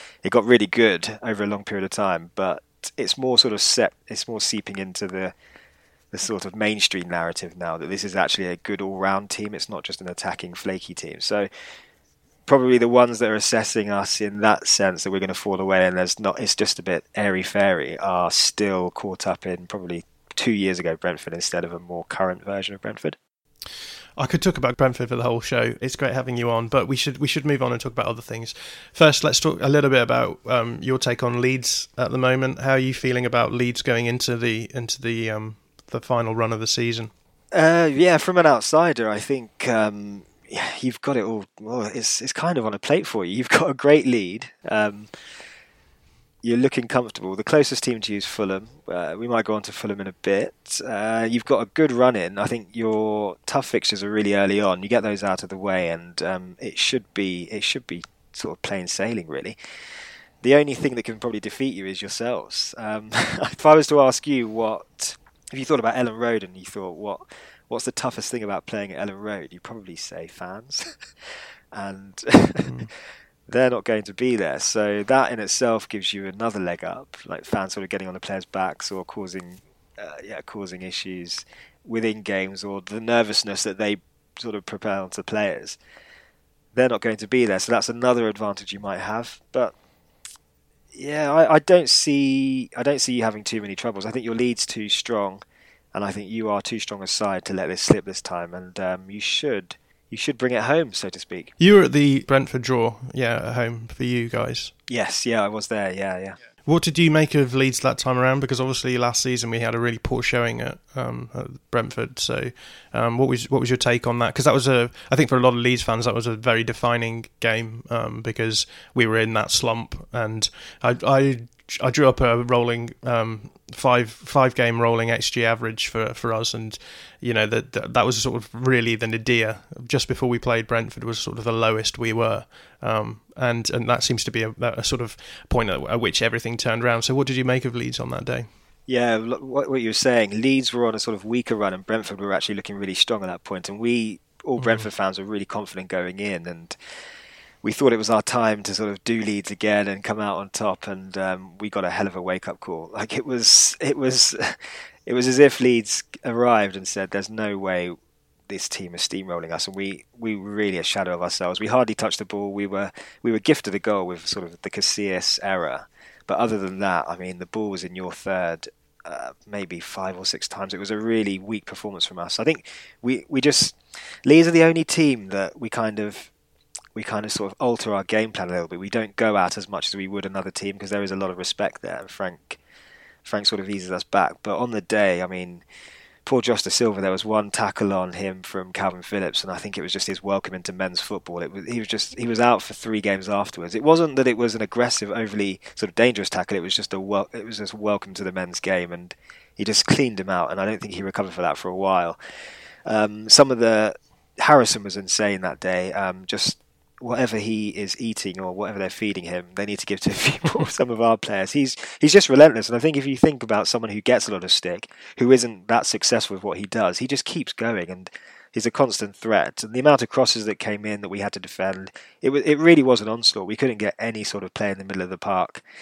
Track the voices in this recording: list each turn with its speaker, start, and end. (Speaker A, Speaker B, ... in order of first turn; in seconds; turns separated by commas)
Speaker A: 0.2-5.3, Speaker A: 6.1-11.5, Speaker A: 12.5-23.2, Speaker B: 24.2-37.1, Speaker A: 37.5-45.1, Speaker A: 46.4-59.6, Speaker A: 60.4-72.9, Speaker A: 73.5-85.8, Speaker A: 86.7-89.7, Speaker A: 90.9-95.4, Speaker A: 95.9-101.5, Speaker B: 101.6-104.7, Speaker A: 104.9-106.4, Speaker B: 106.6-138.5, Speaker A: 138.9-146.8, Speaker B: 144.6-144.8, Speaker A: 147.6-157.9, Speaker A: 158.5-176.3, Speaker A: 176.9-182.6, Speaker A: 183.2-185.6, Speaker A: 186.2-202.2, Speaker A: 202.9-225.6